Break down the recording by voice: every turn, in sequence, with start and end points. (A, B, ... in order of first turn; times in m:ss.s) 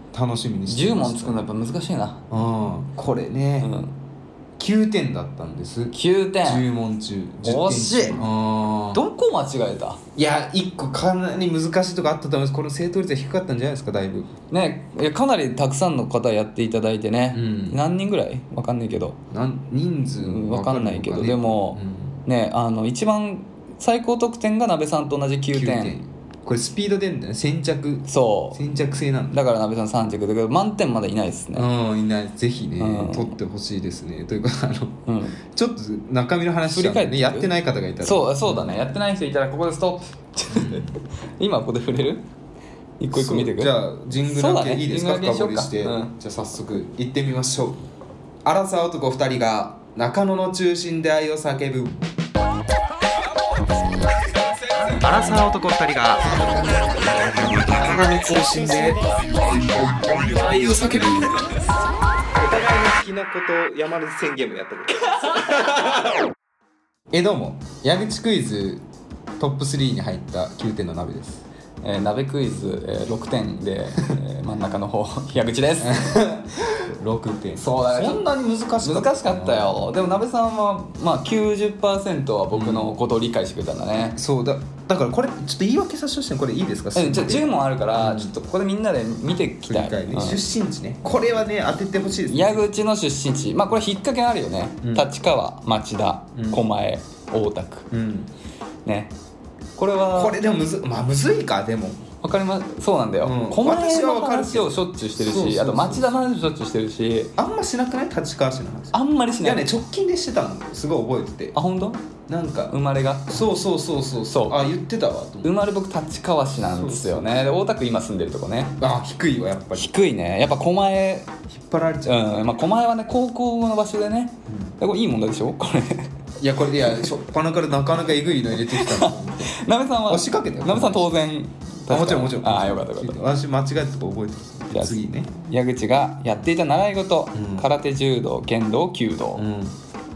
0:00.1-0:01.4 A
0:00.7-0:02.2 B
0:02.3-0:03.7 A
0:03.6-0:04.0 B
0:04.6-0:09.0 A
0:05.9-0:06.7 B
0:07.4-0:08.2 B
0:08.9-0:10.0 B
0:10.2-0:14.3 A
0:14.5-0:19.2 B
0:17.3-0:17.8 A
0:19.3-0:22.2 A
0:20.2-0:26.0 B
0:25.5-0:29.4 A
0:28.1-0:28.7 B
0:29.3-0:31.7 B
0:31.5-0:38.8 A
0:32.8-0:33.4 B
0:35.1-0:35.4 B
0:36.7-0:37.5 B
0:38.0-0:42.3 B
0:40.5-0:40.9 A
0:43.0-0:46.1 B
0:43.1-0:47.8 A
0:48.4-0:52.0 A
0:53.1-0:55.4 B
0:55.0-1:01.6 A
1:02.3-1:06.1 A
1:05.1-1:05.7 B
1:07.1-1:08.8 A
1:09.4-1:11.4 A
1:11.8-1:16.2 B
1:15.8-1:19.8 A
1:17.6-1:18.3 B
1:18.8-1:24.2 B
1:22.5-1:22.9 A
1:24.2-1:28.3 A
1:27.0-1:30.4 B
1:29.6-1:32.7 A
1:32.3-1:37.9 B
1:34.8-1:35.1 A
1:36.4-1:36.6 A
1:37.9-1:38.3 A
1:38.8-1:39.2 B
1:39.8-1:40.4 B
1:40.1-1:42.0 A
1:42.2-1:47.3 B
1:43.2-1:46.2 A
1:47.4-1:51.6 A
1:48.9-1:49.8 B
1:51.6-1:52.1 B
1:52.3-1:52.8 A
1:52.7-1:53.6 B
1:53.3-1:55.5 A
1:54.2-1:54.6 B
1:55.4-1:58.8 B
1:56.6-1:57.3 A
1:58.8-1:59.9 A
1:59.8-2:01.3 B
2:01.5-2:02.4 A
2:02.0-2:06.1 B
2:06.4-2:09.6 A
2:08.5-2:13.2 B
2:10.1-2:11.1 A
2:11.9-2:15.3 A
2:14.7-2:19.5 B
2:17.4-2:17.7 A
2:19.4-2:19.8 A